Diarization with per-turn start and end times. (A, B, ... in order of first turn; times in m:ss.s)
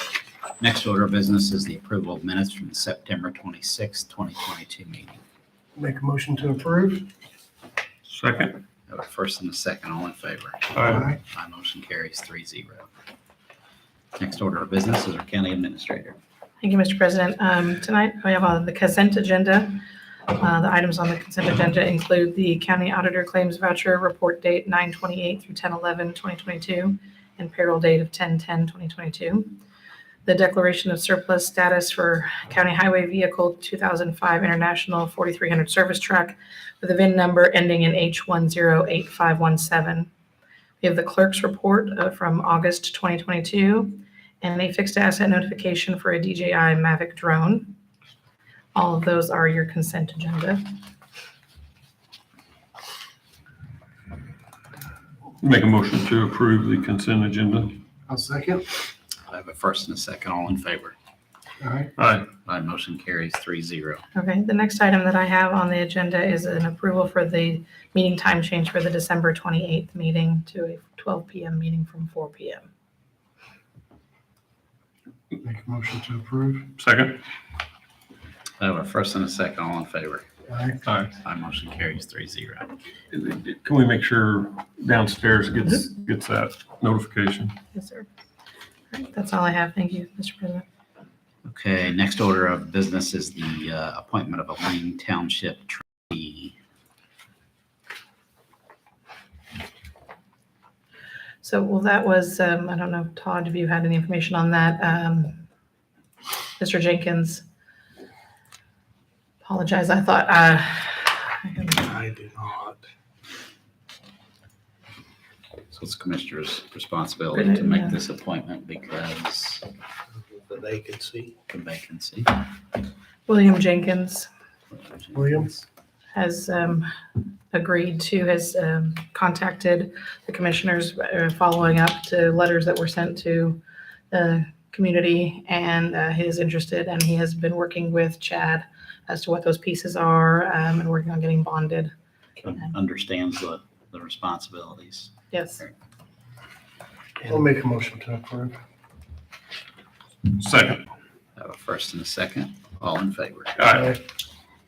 0:00.6-0:05.2 A
0:05.8-0:07.1 B
0:08.1-0:08.6 C
0:08.9-0:12.9 A
0:10.7-0:11.1 C
0:10.9-0:11.2 B
0:14.2-0:16.2 A
0:16.6-0:29.6 D
0:30.2-0:40.1 D
0:40.8-0:47.8 D
0:48.8-0:50.6 D
0:55.4-0:57.8 C
0:58.1-0:58.7 B
0:59.3-1:00.9 A
1:01.6-1:01.9 B
1:02.0-1:02.3 C
1:02.4-1:04.0 A
1:04.2-1:12.7 D
1:15.4-1:16.7 B
1:16.8-1:17.2 C
1:18.6-1:20.2 A
1:20.5-1:20.8 B
1:20.9-1:21.1 C
1:21.2-1:22.7 A
1:23.1-1:27.6 C
1:27.7-1:28.1 D
1:28.9-1:30.6 D
1:31.5-1:36.5 A
1:41.4-1:45.4 D
1:46.6-1:47.4 D
1:49.4-1:51.9 D
1:51.8-1:52.8 B
1:55.7-1:59.6 A
1:57.3-1:58.0 D
2:00.3-2:01.3 B
2:01.5-2:02.4 A
2:03.3-2:04.3 D
2:04.7-2:05.6 A
2:05.1-2:05.5 B
2:06.1-2:06.9 D
2:07.5-2:21.9 D
2:22.4-2:25.7 A
2:25.3-2:25.6 D
2:27.2-2:28.6 B
2:30.3-2:30.8 C
2:31.4-2:33.5 A
2:33.6-2:34.0 C
2:33.7-2:34.0 B